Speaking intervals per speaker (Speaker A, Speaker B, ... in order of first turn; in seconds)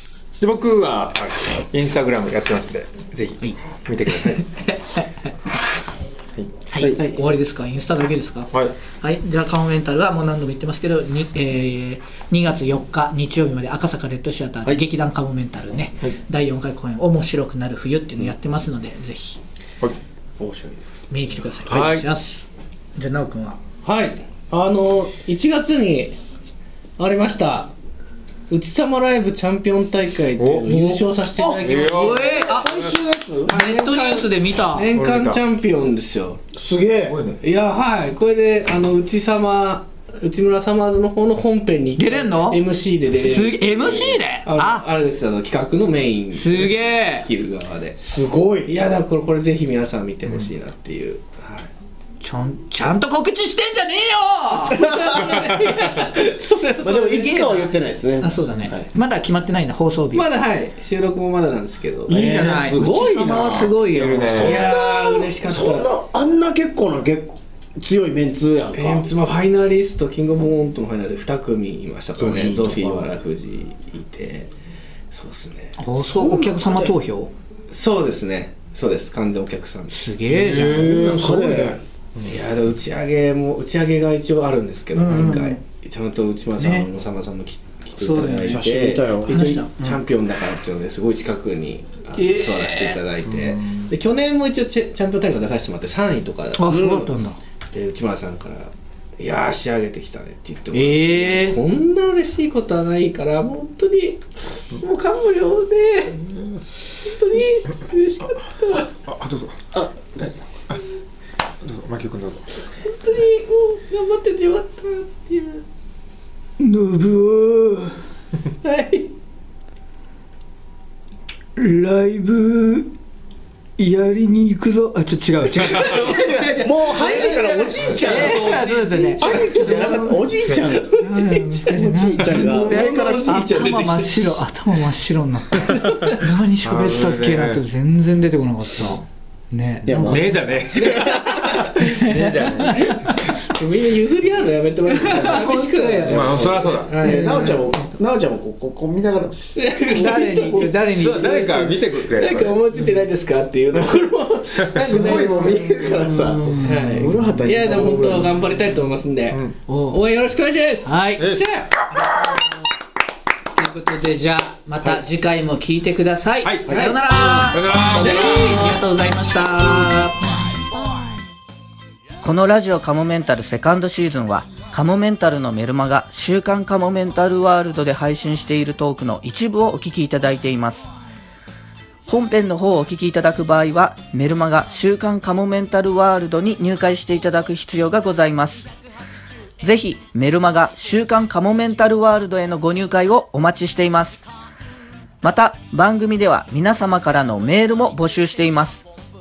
Speaker A: 0.4-4.5, 21.7-22.0, 30.4-32.7, 34.9-35.4, 37.0-37.4, 63.6-64.7, 80.3-82.3, 93.2-93.9, 109.0-109.6, 111.6-112.6, 125.4-125.9, 136.6-137.6, 139.9-143.1, 146.1-146.9, 150.9-152.6, 161.2-161.6, 166.4-168.5
Speaker B: 4.1-5.3, 6.7-19.4, 21.1-23.6, 31.7-32.8, 33.5-34.9, 42.0-42.6, 43.2-44.9, 46.3-47.3, 52.2-54.8, 58.2-60.3, 62.1-64.5, 75.8-77.3, 79.9-81.0, 84.9-85.6, 86.6-86.9, 88.0-88.7, 89.2-90.0, 92.1-93.0, 96.6-97.4, 100.7-101.6, 125.7-126.0, 126.5-130.3, 131.0-140.4, 141.8-143.3, 145.0-146.2, 147.0-147.9, 149.9-151.8, 154.9-157.1, 159.7-160.0, 160.8-161.3, 161.9-162.4, 163.6-170.2
Speaker C: 6.7-7.0, 20.4-21.1, 31.4-33.6, 36.5-37.2, 48.0-48.7, 54.7-55.6, 56.8-58.9, 62.1-63.7, 64.3-69.1, 72.2-73.1, 75.9-76.9, 80.5-81.8, 88.4-89.6, 96.7-97.0, 109.7-110.4, 125.7-133.7, 139.8-141.5, 145.1-150.7, 154.8-158.4, 166.7-166.9, 167.9-168.7
Speaker D: 23.8-26.2, 27.0-27.7, 28.5-32.6, 33.5-36.4, 37.4-48.0, 48.6-51.7, 54.5-57.6, 60.1-62.8, 64.3-65.9, 68.7-74.5, 75.1-75.8, 77.7-80.0, 82.2-97.1, 97.7-106.2, 107.0-108.9, 112.8-115.6, 118.6-119.1, 125.6-127.3, 127.9-130.0, 132.2-134.2, 135.6-136.2, 143.4-147.5, 149.6-159.4, 159.9-161.7, 167.9-168.7
Speaker E: 121.6-122.8, 123.9-125.1, 172.2-180.9, 182.1-188.7, 189.6-194.2, 195.2-198.8